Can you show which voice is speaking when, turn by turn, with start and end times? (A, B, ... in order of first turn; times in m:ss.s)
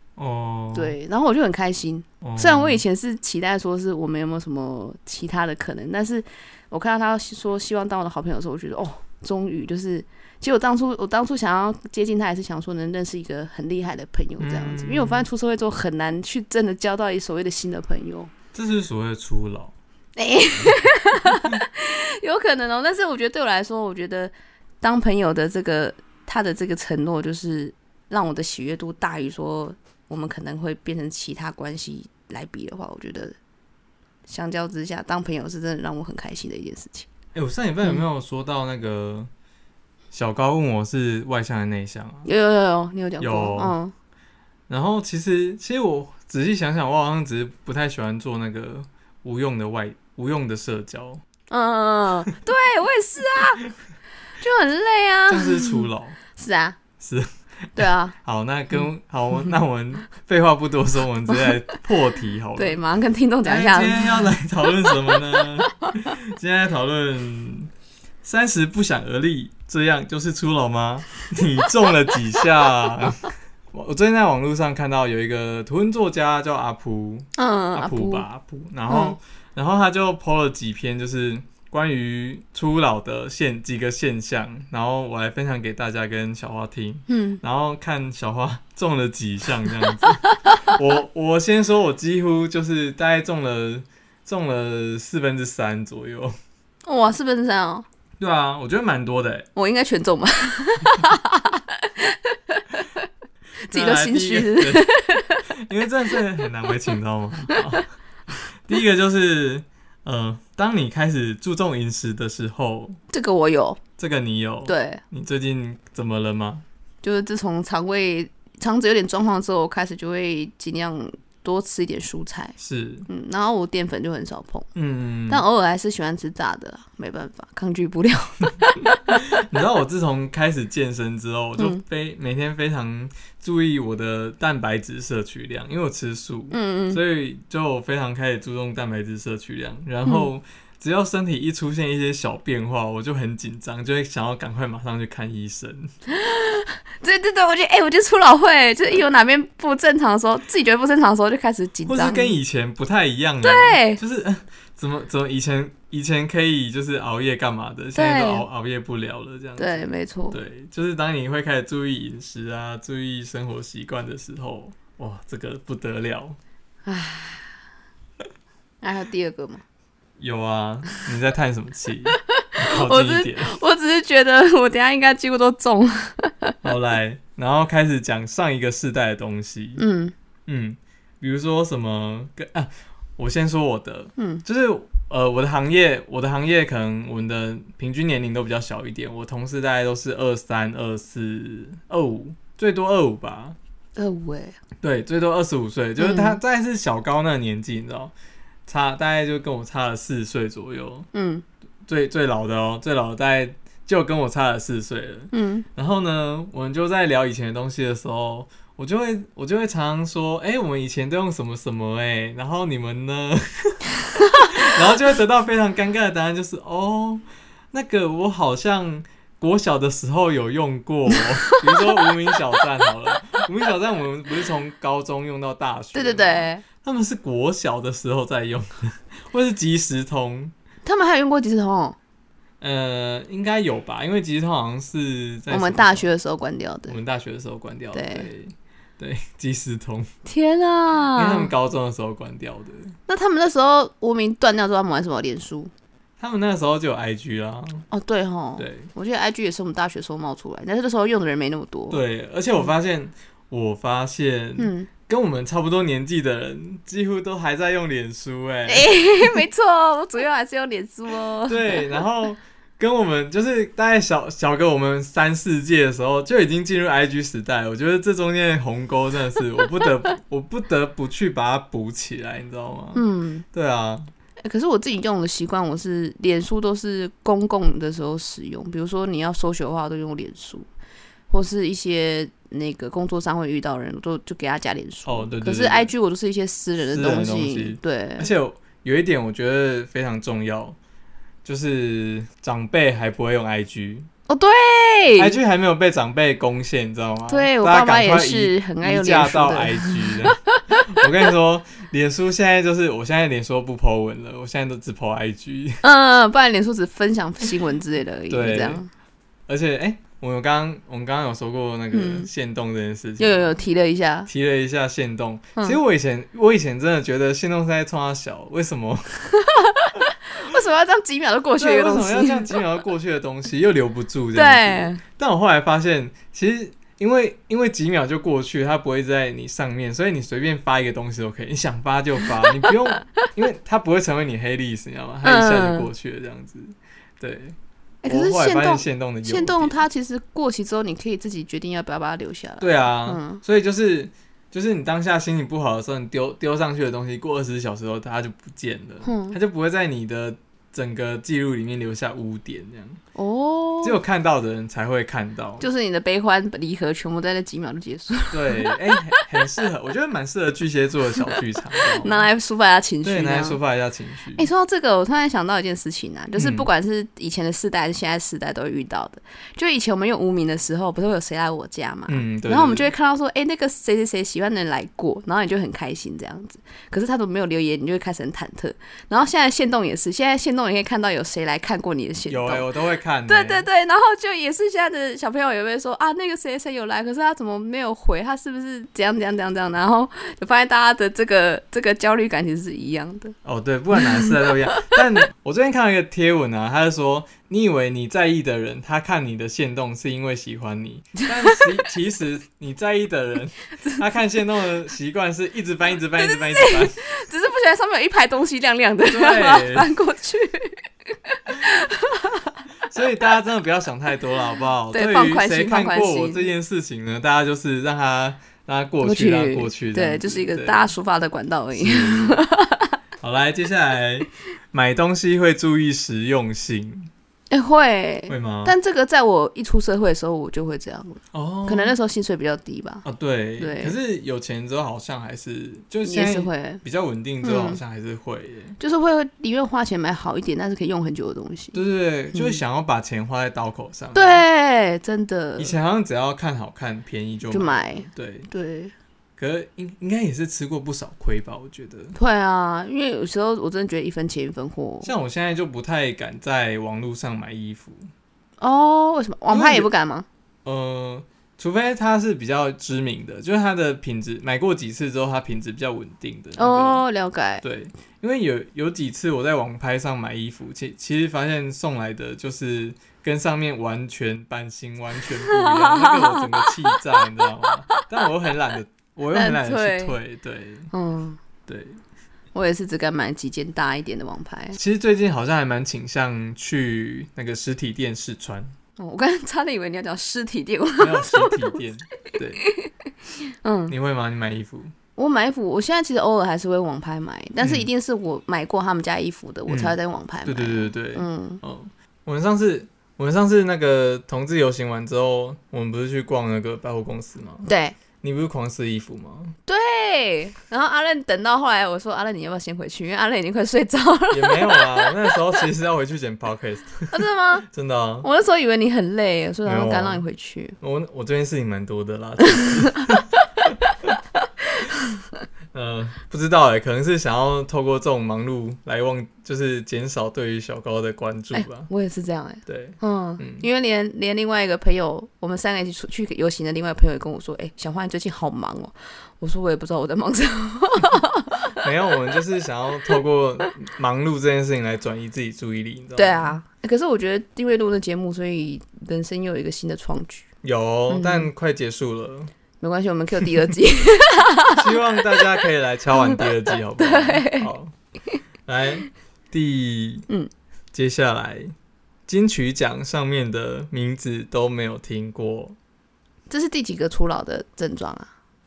0:00.2-0:01.0 A
0:00.7-0:18.3 B
0:02.2-0:02.8 A
0:14.4-0:15.3 A
0:18.5-0:19.8 A
0:20.2-0:33.4 B
0:34.3-0:37.1 B
0:37.4-0:39.3 A
0:40.1-0:42.3 A
0:42.2-0:43.9 B
0:43.2-0:43.8 A
0:44.7-0:51.2 A
0:51.5-0:53.6 B
0:54.4-0:56.8 B
0:55.3-0:56.2 A
0:57.0-1:02.8 A
0:57.8-0:58.2 B
1:02.6-1:04.3 B
1:03.4-1:07.7 A
1:08.2-1:36.4 A
1:17.4-1:18.2 B
1:18.9-1:19.2 B
1:27.1-1:27.4 B
1:36.8-1:37.9 B
1:38.2-1:39.5 A
1:39.6-1:43.0 B
1:43.6-1:45.4 B
1:43.7-1:44.9 A
1:45.5-1:47.9 A
1:48.6-1:53.0 A
1:53.1-1:53.8 B
1:54.0-1:56.6 A
1:54.7-1:55.0 B
1:57.0-2:02.6 B
2:02.6-2:03.1 A
2:03.1-2:04.7 B
2:04.8-2:05.4 A
2:05.3-2:09.0 B
2:09.2-2:25.9 A
2:16.5-2:17.0 B
2:26.1-2:32.3 B
2:31.9-2:46.4 A
2:33.4-2:34.0 B
2:38.0-2:38.4 B
2:39.6-2:40.4 B
2:46.8-2:47.5 B
2:48.8-2:49.6 B
2:50.2-2:53.6 A
2:52.4-2:56.6 B
2:56.6-2:59.8 A
2:59.8-3:00.1 B
3:00.5-3:13.6 A
3:04.2-3:04.4 B
3:14.0-3:14.6 B
3:14.8-3:18.1 A
3:16.0-3:16.4 B
3:18.7-3:21.1 A
3:21.1-3:21.4 B
3:21.9-3:50.5 A
3:25.3-3:25.7 B
3:41.7-3:42.0 B
3:45.9-3:46.6 B
3:50.8-3:52.0 B
3:52.6-3:56.1 A
3:55.5-3:57.0 B
3:56.9-4:00.1 A
3:57.9-3:58.3 B
4:00.3-4:01.5 B
4:01.1-4:03.0 A
4:03.1-4:05.7 B
4:06.2-4:07.9 A
4:07.9-4:12.0 B
4:08.6-4:08.9 A
4:11.9-4:19.3 A
4:14.6-4:14.9 B
4:18.7-4:22.0 B
4:21.4-4:34.1 A
4:33.0-4:33.4 B
4:34.4-4:40.7 B
4:41.3-4:48.3 B
4:45.0-4:45.9 A
4:46.8-4:50.8 A
4:51.4-4:54.1 A
4:54.3-4:55.4 B
4:55.2-5:05.8 A
4:57.3-5:01.0 B
5:05.8-5:08.9 B
5:08.3-5:08.8 A
5:09.5-5:13.5 A
5:11.9-5:12.3 B
5:13.2-5:14.3 B
5:14.3-5:19.3 A
5:19.4-5:22.5 B
5:21.6-5:39.8 A
5:24.3-5:25.0 B
5:35.2-5:35.9 B
5:38.0-5:43.4 B
5:42.6-5:53.0 A
5:49.0-5:49.4 B
5:53.2-5:54.0 B
5:53.8-5:55.7 A
5:55.6-5:58.8 B
5:58.3-6:02.3 A
6:01.7-6:03.6 B
6:03.0-6:04.5 A
6:04.4-6:22.7 B
6:06.4-6:06.7 A
6:12.1-6:12.9 A
6:22.3-6:23.7 A
6:23.3-6:33.4 B
6:33.4-6:47.0 A
6:34.0-6:34.3 B
6:46.2-6:52.6 B
6:49.1-6:49.9 A
6:52.9-7:00.9 A
6:54.9-6:56.5 B
6:59.0-7:03.0 B
7:01.7-7:02.4 A
7:03.2-7:07.1 A
7:07.5-7:13.0 B
7:08.3-7:08.8 A
7:11.3-7:12.0 A
7:13.0-7:18.8 A
7:13.6-7:13.9 B
7:16.0-7:16.8 B
7:17.4-7:17.8 B
7:18.8-7:21.8 B
7:21.7-7:24.4 A
7:22.3-7:22.6 B
7:24.1-7:25.8 B
7:25.6-7:28.5 A
7:27.5-7:28.9 B
7:29.4-7:32.2 A
7:32.2-7:35.1 B
7:35.0-7:38.1 A
7:38.6-7:40.3 B
7:39.5-7:39.9 A
7:40.6-7:47.0 A
7:46.6-7:47.6 B
7:47.6-8:00.9 A
7:55.5-7:57.0 B
7:59.3-8:00.2 B
8:00.9-8:01.4 B
8:01.7-8:02.0 A
8:02.5-8:04.8 B
8:04.8-8:08.8 A
8:09.0-8:11.8 B
8:11.0-8:12.6 A
8:12.6-8:12.9 B
8:13.5-8:14.0 B
8:13.9-8:14.9 A
8:15.2-8:21.6 B
8:17.6-8:17.9 A
8:19.7-8:27.7 A
8:27.7-8:28.0 B
8:28.2-8:29.6 A
8:29.7-8:35.4 B
8:34.3-8:38.3 A
8:37.1-8:37.7 B
8:38.2-8:40.8 B
8:39.6-8:40.2 A
8:40.8-8:43.8 A
8:44.8-8:45.1 B
8:45.7-8:51.9 A
8:51.5-9:01.8 B
8:52.7-8:53.7 A
9:01.7-9:06.6 A
9:06.2-9:10.5 B
9:10.6-9:12.5 A
9:11.1-9:11.5 B
9:12.8-9:15.4 B
9:14.8-9:17.9 A
9:17.0-9:17.7 B
9:18.7-9:20.3 A
9:20.9-9:21.7 A
9:22.3-9:25.8 A
9:26.5-9:28.3 B